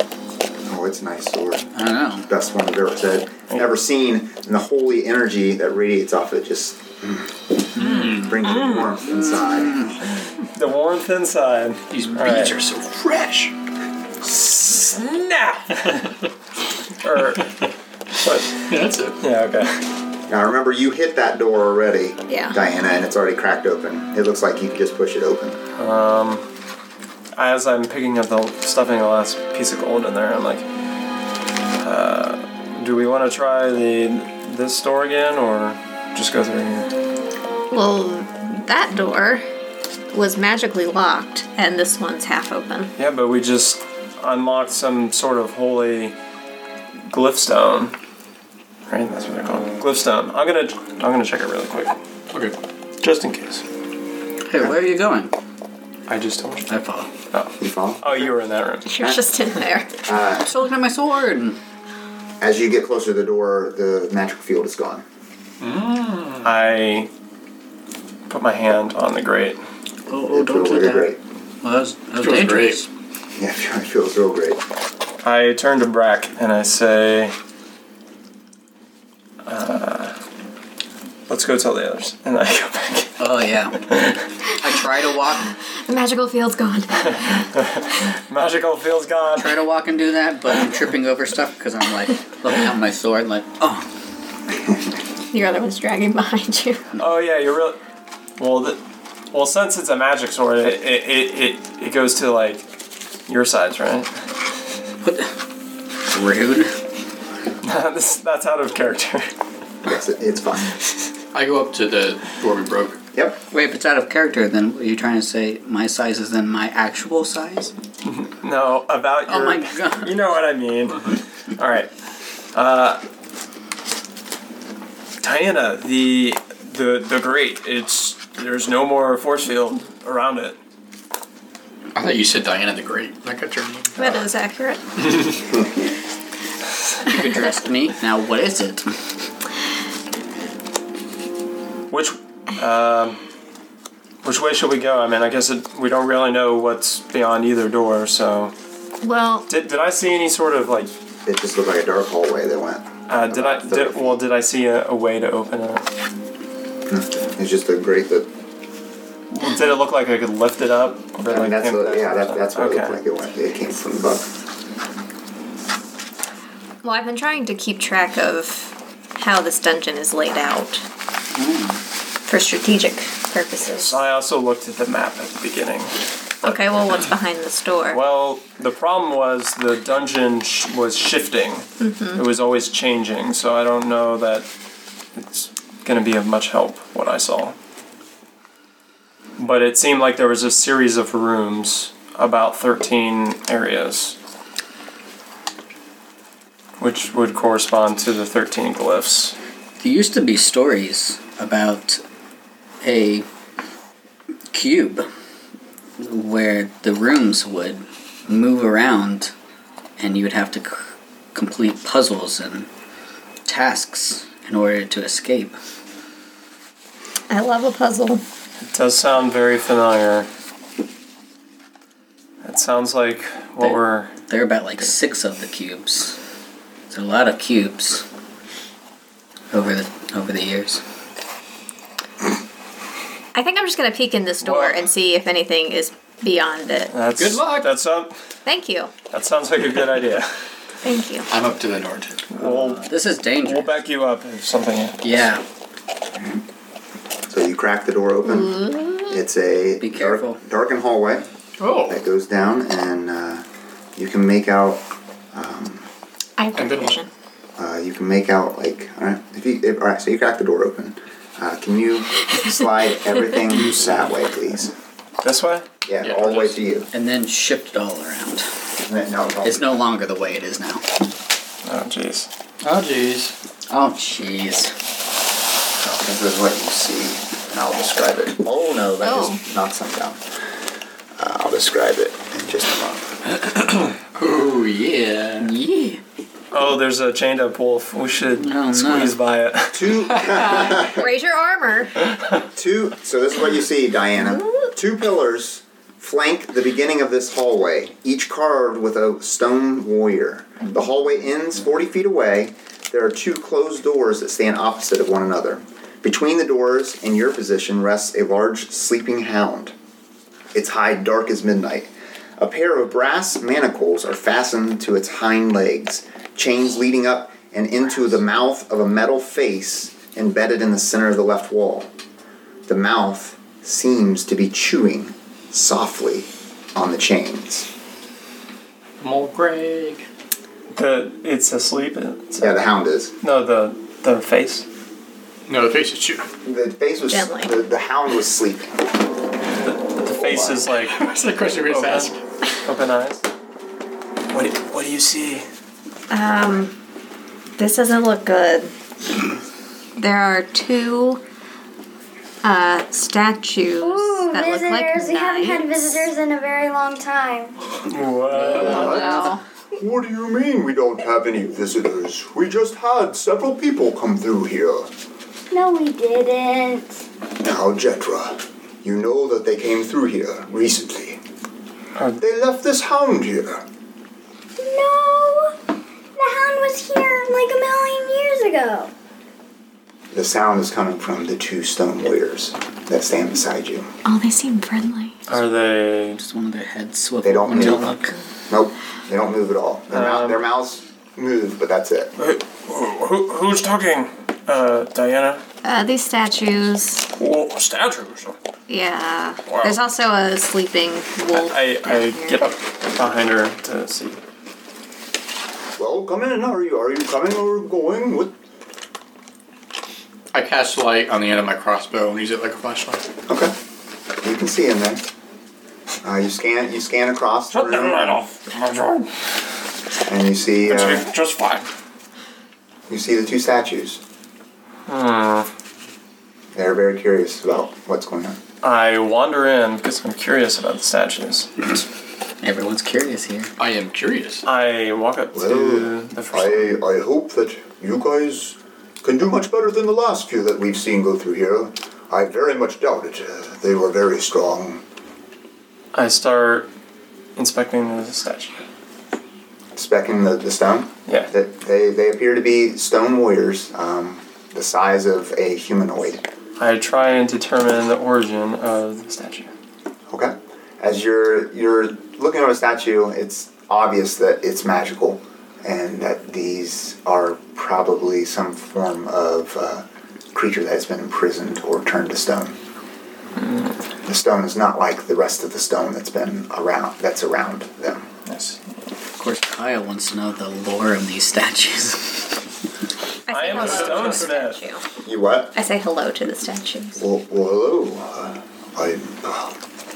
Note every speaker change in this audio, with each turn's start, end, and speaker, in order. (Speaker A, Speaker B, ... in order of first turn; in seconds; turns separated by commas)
Speaker A: 0.7-1.7, Speaker B: 1.7-2.3, Speaker A: 2.3-7.3, Speaker C: 7.8-8.7, Speaker A: 8.1-9.8, Speaker B: 9.2-10.0, Speaker D: 10.4-12.5, Speaker C: 11.9-13.5, Speaker D: 14.2-16.1, Speaker D: 17.0-17.6, Speaker D: 18.2-18.5, Speaker C: 18.5-19.2, Speaker D: 19.2-19.8, Speaker A: 20.3-25.6, Speaker E: 22.3-22.6, Speaker D: 25.8-26.4, Speaker D: 27.4-30.6, Speaker D: 31.8-36.9, Speaker E: 37.7-39.4, Speaker E: 40.1-42.9, Speaker D: 43.0-46.1, Speaker D: 47.1-48.0, Speaker D: 48.9-52.0, Speaker C: 52.3-52.6, Speaker D: 53.0-53.6, Speaker B: 54.5-55.3, Speaker D: 56.1-56.7, Speaker B: 56.7-57.1, Speaker D: 57.3-58.9, Speaker A: 57.6-58.4, Speaker E: 58.9-60.0, Speaker A: 60.1-60.5, Speaker B: 60.4-61.6, Speaker A: 62.4-65.0, Speaker C: 65.6-66.5, Speaker D: 66.4-67.1, Speaker D: 68.3-69.6, Speaker B: 70.1-72.9, Speaker A: 70.3-71.2, Speaker C: 72.2-72.8, Speaker A: 73.4-74.6, Speaker D: 75.2-77.3, Speaker D: 79.5-80.2, Speaker D: 81.3-83.2, Speaker B: 83.2-83.8, Speaker D: 83.8-84.2, Speaker B: 84.6-85.5, Speaker E: 85.7-87.5, Speaker D: 87.5-89.6, Speaker B: 89.3-93.9, Speaker E: 95.3-96.9, Speaker D: 97.0-97.8, Speaker D: 98.4-98.8, Speaker D: 99.3-102.7, Speaker D: 103.3-104.1, Speaker B: 105.0-105.4, Speaker B: 106.1-106.8, Speaker D: 107.6-109.3, Speaker A: 109.8-110.8, Speaker C: 111.3-113.0, Speaker A: 113.1-113.4, Speaker B: 113.5-117.7, Speaker D: 118.1-121.9, Speaker B: 119.3-120.2, Speaker D: 122.5-123.0, Speaker D: 125.2-130.6, Speaker C: 131.9-134.2, Speaker E: 134.0-134.8, Speaker C: 135.0-135.4, Speaker B: 137.0-138.9, Speaker D: 141.9-143.2, Speaker D: 144.2-148.5, Speaker E: 149.0-149.5, Speaker D: 149.5-150.9, Speaker A: 151.2-154.2, Speaker D: 153.1-155.8, Speaker A: 156.9-158.3, Speaker D: 159.3-163.0, Speaker A: 161.3-164.3, Speaker E: 166.8-170.9, Speaker B: 171.4-171.8, Speaker E: 172.3-173.9, Speaker D: 173.8-175.9, Speaker E: 176.4-178.0, Speaker D: 177.9-184.5, Speaker E: 181.8-182.2, Speaker D: 185.2-187.6, Speaker D: 189.4-194.2, Speaker D: 196.8-199.4, Speaker B: 199.8-202.0, Speaker B: 202.8-203.3, Speaker B: 204.5-205.1, Speaker B: 206.0-209.3, Speaker B: 210.0-212.7, Speaker B: 213.4-215.6, Speaker E: 217.3-218.2, Speaker D: 218.7-220.3, Speaker D: 222.4-224.1, Speaker B: 223.6-226.2, Speaker B: 226.9-228.1, Speaker B: 229.5-230.8, Speaker E: 233.3-236.9, Speaker D: 234.4-234.8, Speaker D: 236.9-238.2, Speaker C: 237.2-237.7, Speaker E: 238.4-238.9, Speaker D: 239.1-240.3, Speaker E: 240.8-241.3, Speaker C: 241.3-242.3, Speaker D: 242.3-242.9, Speaker B: 242.4-243.7, Speaker D: 243.4-245.1, Speaker B: 245.0-245.4, Speaker A: 247.3-251.2, Speaker E: 248.3-249.2, Speaker B: 249.8-250.4, Speaker C: 251.6-252.0, Speaker A: 251.9-253.4, Speaker A: 254.0-255.9, Speaker E: 256.4-257.1, Speaker C: 256.6-257.0, Speaker A: 257.6-264.7, Speaker D: 265.2-265.7, Speaker A: 265.9-266.9, Speaker C: 266.0-266.6, Speaker B: 266.9-268.5, Speaker A: 268.8-269.8, Speaker B: 269.4-270.8, Speaker D: 271.6-272.3, Speaker C: 272.6-273.4, Speaker B: 273.7-274.7, Speaker A: 275.9-280.2, Speaker E: 279.0-279.4, Speaker A: 281.2-283.2, Speaker C: 283.3-285.5, Speaker B: 285.4-286.0, Speaker D: 286.5-290.1, Speaker B: 288.4-289.2, Speaker A: 289.7-291.1, Speaker E: 290.7-292.0, Speaker A: 292.6-309.7, Speaker E: 294.3-294.6, Speaker A: 310.5-321.9, Speaker A: 322.7-327.7, Speaker C: 329.0-330.1, Speaker D: 330.7-332.6, Speaker A: 332.4-333.1, Speaker D: 333.2-334.7, Speaker C: 335.5-336.3, Speaker A: 336.4-338.8, Speaker E: 337.1-337.5, Speaker D: 339.9-341.0, Speaker A: 340.1-340.7, Speaker C: 340.8-342.2, Speaker D: 341.7-342.1, Speaker D: 342.6-343.2, Speaker D: 344.3-345.4, Speaker E: 346.1-346.7, Speaker E: 347.6-348.7, Speaker E: 350.0-351.2, Speaker E: 352.4-355.8, Speaker F: 353.8-357.6, Speaker D: 357.9-359.0, Speaker B: 358.3-359.2, Speaker A: 358.5-364.9, Speaker E: 358.6-359.4, Speaker F: 365.5-367.1, Speaker A: 367.4-371.2, Speaker A: 372.2-373.7, Speaker F: 374.6-375.6, Speaker F: 376.2-378.9, Speaker A: 380.1-383.9, Speaker E: 384.1-385.2, Speaker D: 385.3-386.2, Speaker B: 386.2-388.1, Speaker A: 387.2-388.0, Speaker A: 388.5-392.1, Speaker D: 389.9-390.4, Speaker D: 392.2-395.4, Speaker E: 395.6-397.1, Speaker D: 397.1-398.4, Speaker E: 398.7-402.5, Speaker D: 399.5-399.8, Speaker D: 401.3-404.2, Speaker A: 405.8-408.3, Speaker C: 410.3-413.0, Speaker A: 413.3-413.5, Speaker A: 414.2-415.1, Speaker A: 416.0-418.2, Speaker D: 417.5-419.1, Speaker A: 420.1-421.1, Speaker D: 420.7-421.7, Speaker A: 422.9-424.0, Speaker D: 424.9-425.5, Speaker A: 426.5-428.4, Speaker D: 428.6-431.8, Speaker B: 432.4-433.5, Speaker C: 433.6-434.4, Speaker D: 434.4-436.7, Speaker A: 435.3-444.8, Speaker D: 445.9-446.7, Speaker D: 447.4-448.6, Speaker A: 449.8-456.2, Speaker D: 456.6-459.5, Speaker A: 460.1-472.6, Speaker D: 473.4-473.7, Speaker A: 474.1-478.1, Speaker D: 478.3-478.6, Speaker B: 479.2-482.4, Speaker E: 483.3-484.8, Speaker D: 483.3-484.6, Speaker A: 485.0-485.5, Speaker E: 485.5-487.0, Speaker A: 487.0-489.6